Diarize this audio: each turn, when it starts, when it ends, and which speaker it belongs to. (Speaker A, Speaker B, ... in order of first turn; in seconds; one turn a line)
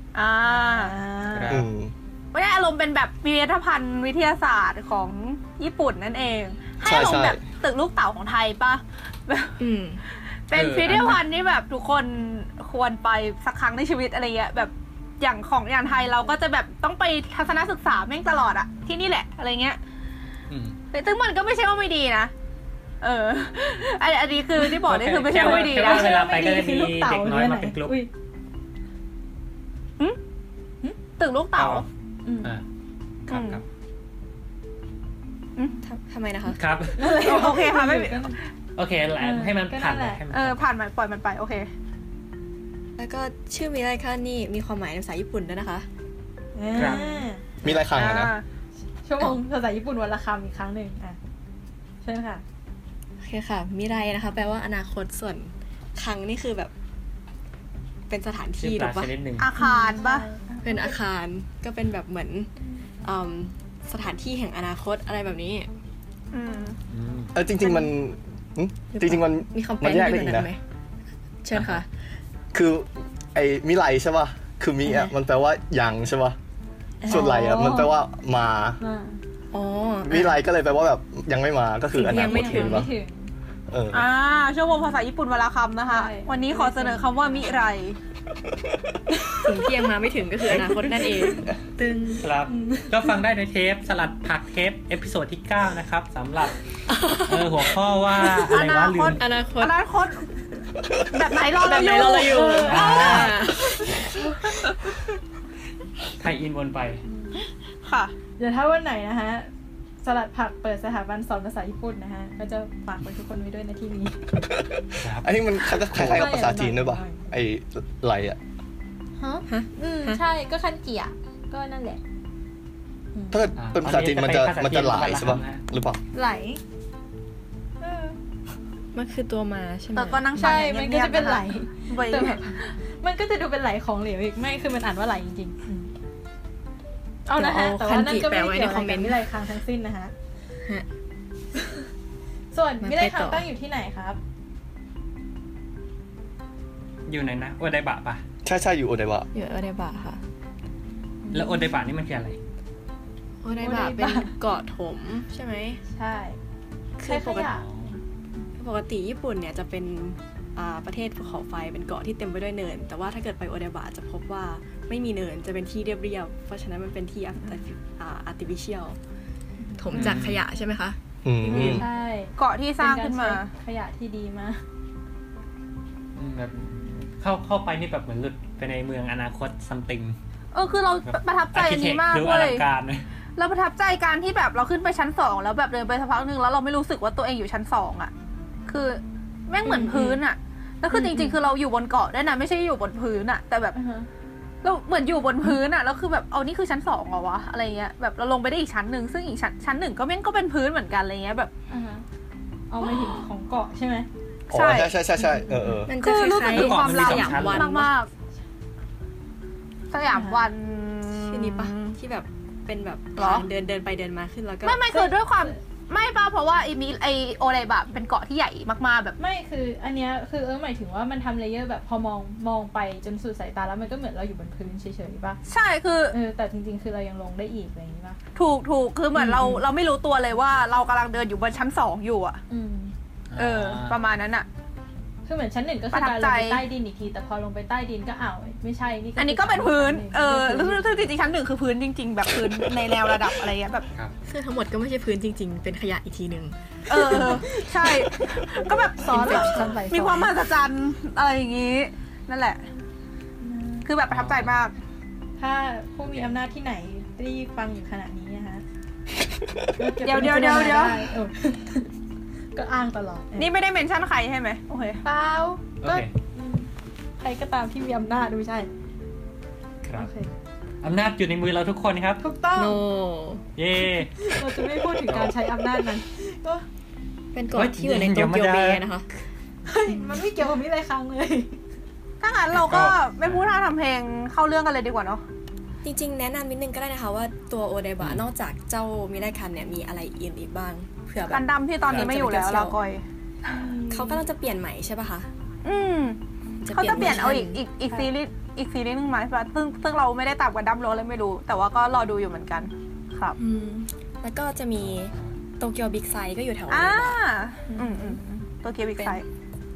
Speaker A: 0.1-0.9
Speaker B: 0.5-1.6
Speaker C: 1.3-1.7
Speaker D: 1.5-1.9
Speaker A: 2.3-9.6
Speaker D: 6.8-7.4
Speaker E: 9.6-10.0
Speaker A: 10.5-19.8
Speaker C: 10.5-11.2
Speaker C: 20.5-20.8
Speaker A: 20.9-22.3
Speaker A: 23.0-26.2
Speaker C: 24.8-28.0
Speaker B: 25.3-28.1
Speaker A: 31.2-31.9
Speaker C: 31.6-31.9
Speaker B: 32.2-32.5
Speaker A: 33.3-33.6
Speaker C: 33.3-33.6
Speaker A: 35.6-35.8
Speaker E: 35.8-36.6
Speaker C: 36.6-37.0
Speaker B: 37.0-38.4
Speaker A: 37.2-38.3
Speaker C: 38.8-40.6
Speaker B: 39.2-40.2
Speaker A: 40.3-41.7
Speaker E: 43.0-45.9
Speaker B: 46.5-47.4
Speaker C: 46.8-47.2
Speaker D: 47.6-48.3
Speaker A: 47.9-48.5
Speaker B: 49.0-51.2
Speaker B: 52.0-52.4
Speaker E: 53.2-56.7
Speaker E: 58.1-59.2
Speaker C: 58.6-59.5
Speaker A: 59.4-60.3
Speaker B: 59.6-61.0
Speaker E: 60.6-62.5
Speaker E: 63.0-65.7
Speaker A: 66.3-66.8
Speaker C: 66.9-67.3
Speaker D: 67.3-70.5
Speaker E: 68.9-70.6
Speaker E: 71.4-71.9
Speaker C: 71.6-71.8
Speaker D: 72.5-76.4
Speaker E: 74.8-75.1
Speaker E: 77.0-77.3
Speaker D: 77.1-78.8
Speaker B: 77.1-77.9
Speaker B: 78.8-79.2
Speaker E: 79.5-80.4
Speaker D: 80.0-82.9
Speaker E: 82.0-82.9
Speaker B: 82.0-83.3
Speaker D: 83.7-84.0
Speaker A: 83.9-88.0
Speaker B: 85.9-87.5
Speaker E: 89.3-92.3
Speaker C: 92.2-96.6
Speaker B: 92.5-92.9
Speaker E: 96.9-97.5
Speaker C: 97.2-99.2
Speaker A: 98.3-100.3
Speaker E: 99.2-99.8
Speaker A: 101.1-103.3
Speaker E: 101.5-104.6
Speaker B: 102.2-103.2
Speaker C: 102.7-103.5
Speaker B: 104.1-104.4
Speaker C: 106.2-107.0
Speaker B: 107.0-107.4
Speaker A: 107.8-108.1
Speaker B: 108.4-109.5
Speaker B: 110.0-114.2
Speaker D: 114.4-118.4
Speaker C: 115.0-115.3
Speaker C: 115.9-116.2
Speaker B: 116.1-117.3
Speaker B: 119.2-122.0
Speaker E: 119.5-120.2
Speaker B: 123.2-123.5
Speaker D: 123.3-126.0
Speaker C: 123.6-125.6
Speaker B: 126.1-126.6
Speaker B: 127.8-128.2
Speaker E: 128.9-130.6
Speaker A: 129.9-132.7
Speaker B: 130.4-135.9
Speaker B: 137.3-140.1
Speaker E: 137.3-139.2
Speaker B: 142.5-144.2
Speaker E: 142.8-143.4
Speaker C: 147.1-148.2
Speaker D: 148.4-149.3
Speaker E: 149.3-150.2
Speaker B: 151.2-151.7
Speaker C: 151.3-152.4
Speaker E: 153.4-155.8
Speaker B: 153.6-154.3
Speaker B: 155.9-156.4
Speaker E: 157.0-157.5
Speaker B: 157.1-157.7
Speaker C: 157.5-157.9
Speaker E: 158.6-169.0
Speaker B: 169.6-170.2
Speaker E: 169.8-171.0
Speaker C: 169.9-170.4
Speaker D: 171.2-171.8
Speaker B: 171.4-174.6
Speaker E: 171.6-171.8
Speaker A: 172.4-173.5
Speaker C: 176.2-180.2
Speaker A: 180.5-182.6
Speaker C: 181.1-183.0
Speaker A: 183.4-188.1
Speaker A: 188.7-193.8
Speaker B: 189.7-190.1
Speaker E: 189.7-190.1
Speaker B: 190.9-191.4
Speaker B: 193.7-194.1
Speaker A: 194.6-201.5
Speaker B: 201.7-202.1
Speaker B: 202.7-204.1
Speaker A: 204.5-204.9
Speaker D: 204.5-205.9
Speaker B: 205.2-205.9
Speaker E: 205.9-207.9
Speaker A: 205.9-208.1
Speaker C: 206.5-207.7
Speaker A: 209.9-212.0
Speaker B: 210.1-210.5
Speaker E: 211.1-214.9
Speaker A: 213.2-213.5
Speaker A: 214.6-219.2
Speaker B: 214.9-215.6
Speaker B: 219.2-225.4
Speaker A: 225.5-226.2
Speaker B: 226.1-228.2
Speaker A: 228.3-232.4
Speaker B: 229.2-229.6
Speaker B: 232.5-232.9
Speaker C: 233.3-234.0
Speaker A: 233.4-234.5
Speaker B: 235.3-240.9
Speaker A: 235.9-236.6
Speaker A: 239.2-243.9
Speaker E: 244.3-247.5
Speaker A: 246.9-252.7
Speaker B: 247.1-248.3
Speaker B: 248.9-250.3
Speaker B: 253.4-253.9
Speaker A: 253.8-254.7
Speaker C: 254.1-254.5
Speaker B: 255.4-258.6
Speaker B: 259.8-261.9
Speaker A: 260.0-261.1
Speaker B: 262.6-263.5
Speaker A: 263.4-265.0
Speaker B: 265.0-266.7
Speaker C: 265.8-266.1
Speaker B: 267.2-268.7
Speaker C: 269.8-270.1
Speaker B: 270.0-270.3
Speaker C: 270.8-272.2
Speaker B: 272.2-272.8
Speaker E: 272.6-273.4
Speaker C: 273.6-274.4
Speaker B: 274.2-276.6
Speaker C: 275.1-275.3
Speaker E: 277.4-279.1
Speaker C: 277.5-278.8
Speaker B: 279.7-281.6
Speaker A: 282.2-285.2
Speaker C: 282.5-283.6
Speaker E: 285.8-292.8
Speaker A: 291.2-293.6
Speaker C: 291.9-292.1
Speaker B: 293.4-294.2
Speaker E: 293.9-295.3
Speaker A: 295.6-296.2
Speaker E: 296.6-297.6
Speaker A: 296.7-303.4
Speaker E: 303.4-307.2
Speaker C: 304.8-305.3
Speaker A: 306.7-309.2
Speaker B: 307.7-308.2